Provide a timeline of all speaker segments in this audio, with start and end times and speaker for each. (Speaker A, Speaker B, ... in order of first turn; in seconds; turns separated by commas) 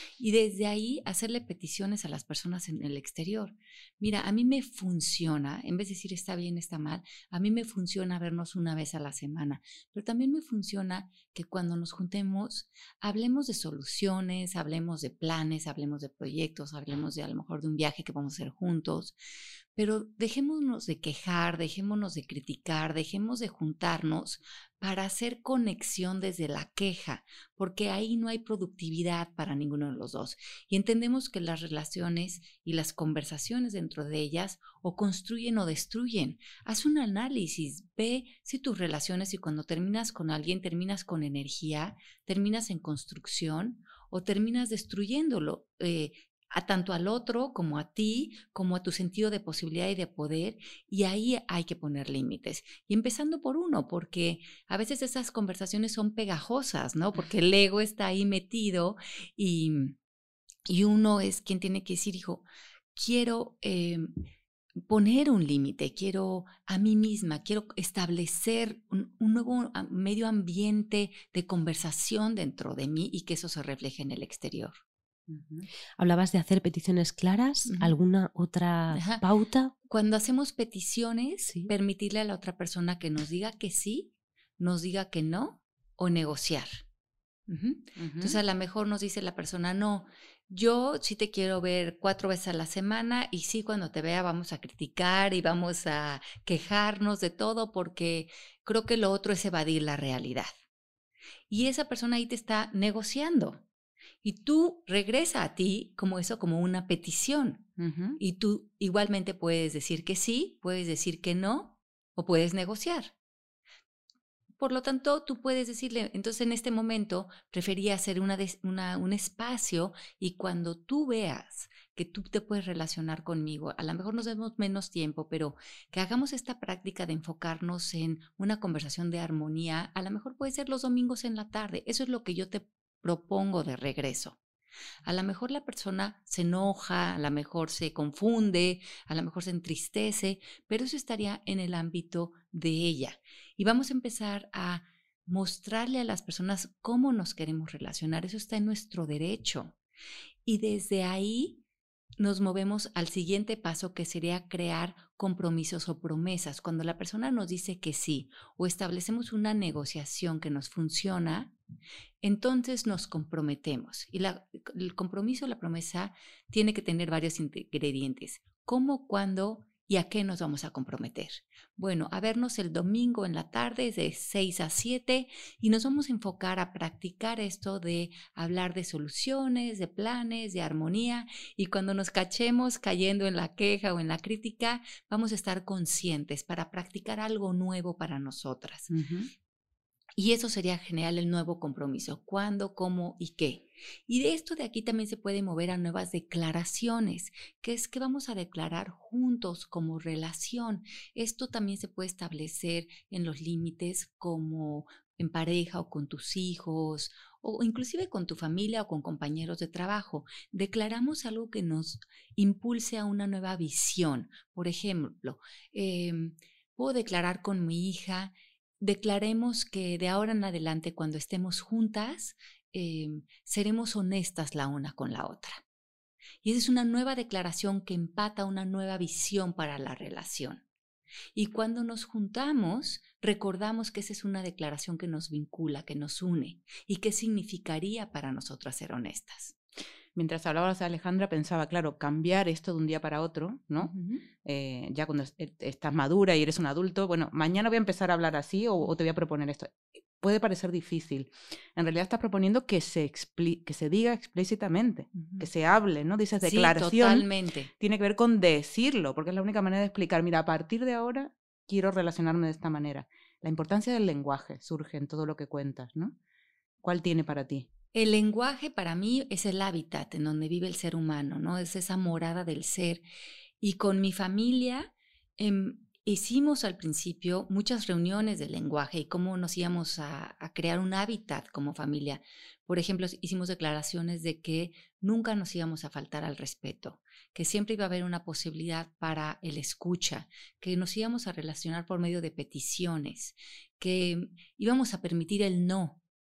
Speaker A: 0.2-19.1, Speaker A: 19.7-60.0, Speaker A: 60.7-64.1, Speaker A: 64.9-74.8, Speaker B: 75.3-75.7, Speaker C: 76.0-79.7, Speaker A: 77.7-77.9, Speaker A: 78.9-79.2, Speaker A: 79.9-86.8, Speaker A: 87.5-100.5, Speaker B: 88.0-88.4, Speaker A: 101.5-103.6, Speaker A: 104.2-113.1, Speaker B: 107.8-108.2, Speaker A: 114.6-134.4, Speaker A: 135.0-149.8, Speaker A: 150.4-151.6, Speaker A: 152.2-161.5, Speaker A: 162.2-188.9, Speaker B: 188.9-189.3, Speaker A: 190.2-225.6, Speaker A: 226.4-230.6, Speaker A: 231.3-239.6, Speaker B: 240.1-257.3, Speaker A: 243.8-244.2, Speaker A: 255.1-255.5, Speaker A: 256.4-257.7, Speaker B: 257.8-266.1, Speaker B: 266.8-267.7, Speaker A: 267.9-273.0, Speaker A: 273.6-296.0